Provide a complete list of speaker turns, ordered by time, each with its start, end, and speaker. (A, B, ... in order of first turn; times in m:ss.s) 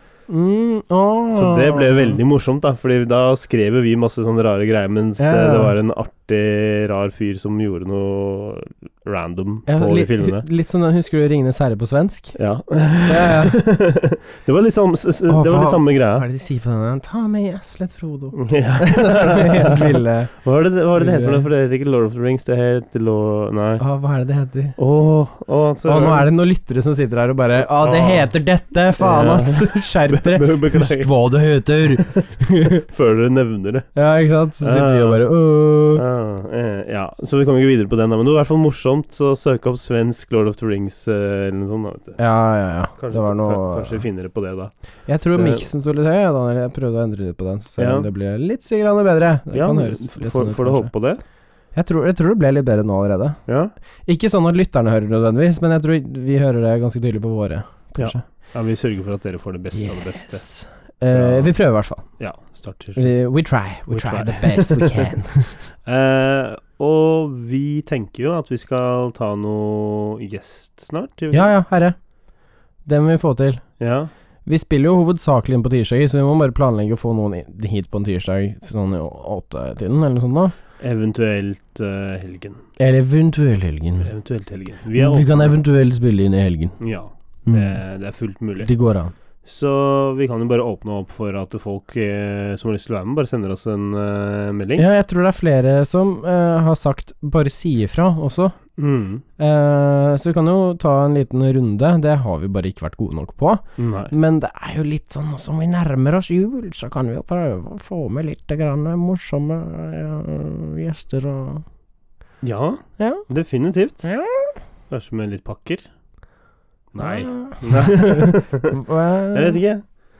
0:00.3-0:02.2 A
0:01.3-0:10.4 B
0:05.2-0:05.7 A
0:09.7-0:12.4 A
0:12.3-0:16.2 B
0:13.1-0:13.6 A
0:15.3-0:20.3 A
0:18.3-0:23.8 B
0:21.0-0:21.5 A
0:23.8-0:24.8 A
0:24.8-0:26.3 B
0:25.8-0:32.8 A
0:27.8-0:28.3 B
0:29.0-0:31.1 B
0:31.9-0:33.9 B
0:34.0-0:36.0 A
0:34.6-0:35.2 B
0:35.9-0:42.2 B
0:42.2-0:44.0 A
0:43.0-0:44.7 B
0:45.1-0:50.9 A
0:45.4-0:45.7 B
0:47.8-0:48.0 B
0:49.5-0:51.2 B
0:51.7-0:53.4 A
0:53.5-0:53.7 B
0:54.0-0:58.2 A
0:58.0-1:00.4 B
0:59.7-1:02.0 A
1:01.1-1:01.5 B
1:02.2-1:03.1 B
1:03.0-1:05.6 A
1:03.9-1:05.1 B
1:05.8-1:11.5 B
1:11.3-1:12.0 A
1:12.8-1:13.6 A
1:13.8-1:14.1 B
1:14.4-1:20.5 A
1:20.8-1:22.6 B
1:22.8-1:24.1 A
1:24.0-1:25.5 B
1:24.9-1:26.8 A
1:26.8-1:28.7 B
1:27.4-1:27.8 A
1:28.6-1:29.1 A
1:29.4-1:34.9 B
1:34.8-1:38.6 A
1:38.8-1:39.2 B
1:39.4-1:51.6 A
1:43.8-1:44.1 B
1:52.4-1:54.1 B
1:53.0-1:53.2 A
1:54.0-1:54.6 A
1:54.9-1:55.8 B
1:56.9-1:58.8 B
1:57.0-1:59.6 A
1:59.3-1:59.8 B